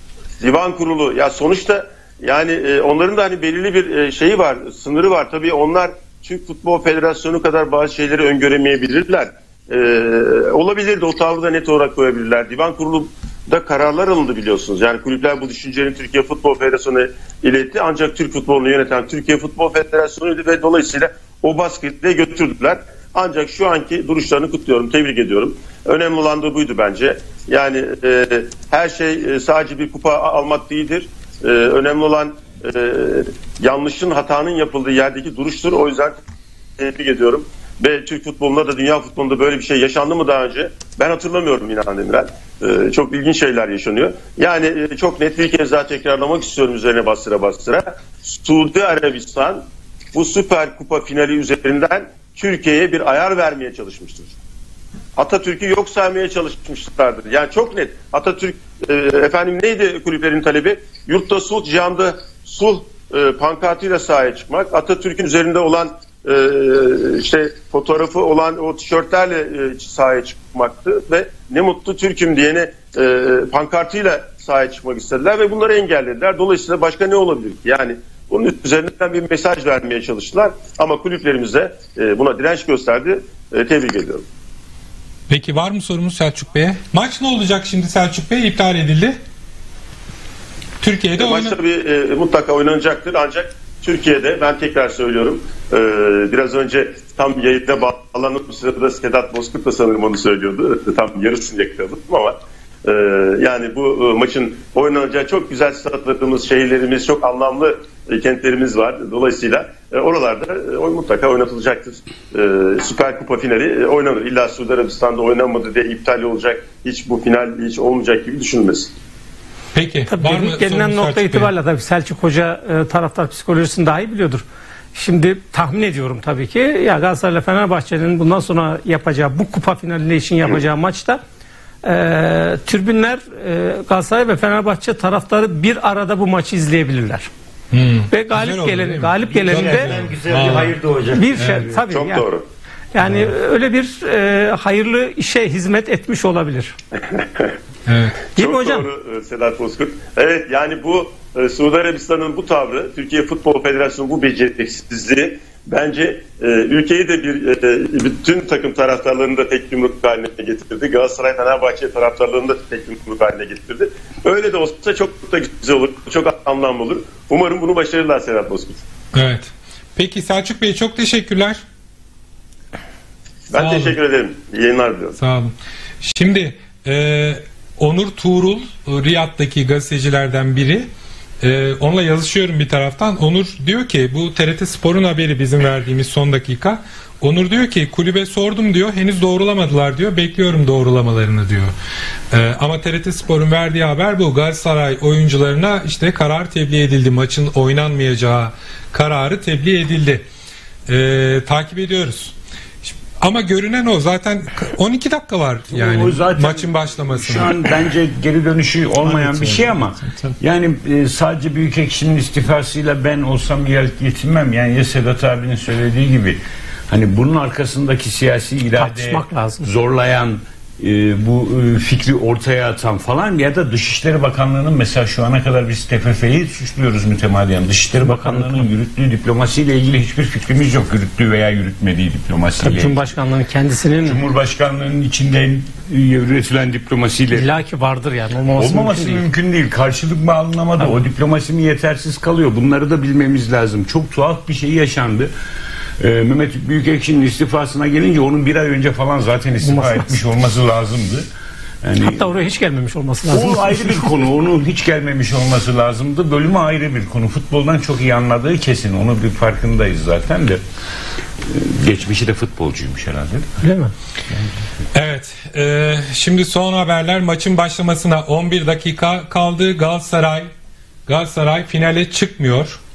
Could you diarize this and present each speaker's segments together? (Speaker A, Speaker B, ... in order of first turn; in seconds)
Speaker A: 0.4-36.2, 36.8-54.3, 55.2-84.2, 91.2-118.9, 141.9-142.4, 147.0-147.6, 148.4-168.8, 173.5-175.2
Speaker B: 85.3-89.2, 90.8-91.5, 119.7-121.5, 137.7-140.8, 141.3-141.7, 143.0-143.3, 147.9-148.2, 169.1-171.6, 173.5-174.0, 175.2-180.9, 181.4-191.7, 192.3-200.2, 200.9-207.6, 209.0-209.8, 264.9-270.5, 271.1-272.8
Speaker C: 120.1-131.2, 131.8-137.3, 138.1-140.0, 141.1-142.2, 142.9-146.7, 148.3-148.8, 218.8-219.7, 228.0-228.7, 232.6-234.2, 237.3-239.2, 249.6-250.2, 252.0-254.1, 263.6-263.9
Speaker D: 139.2-141.8, 205.7-216.4, 216.9-233.1, 234.0-237.5, 238.5-245.3, 246.0-251.3, 251.8-252.3, 253.3-260.6, 261.4-263.6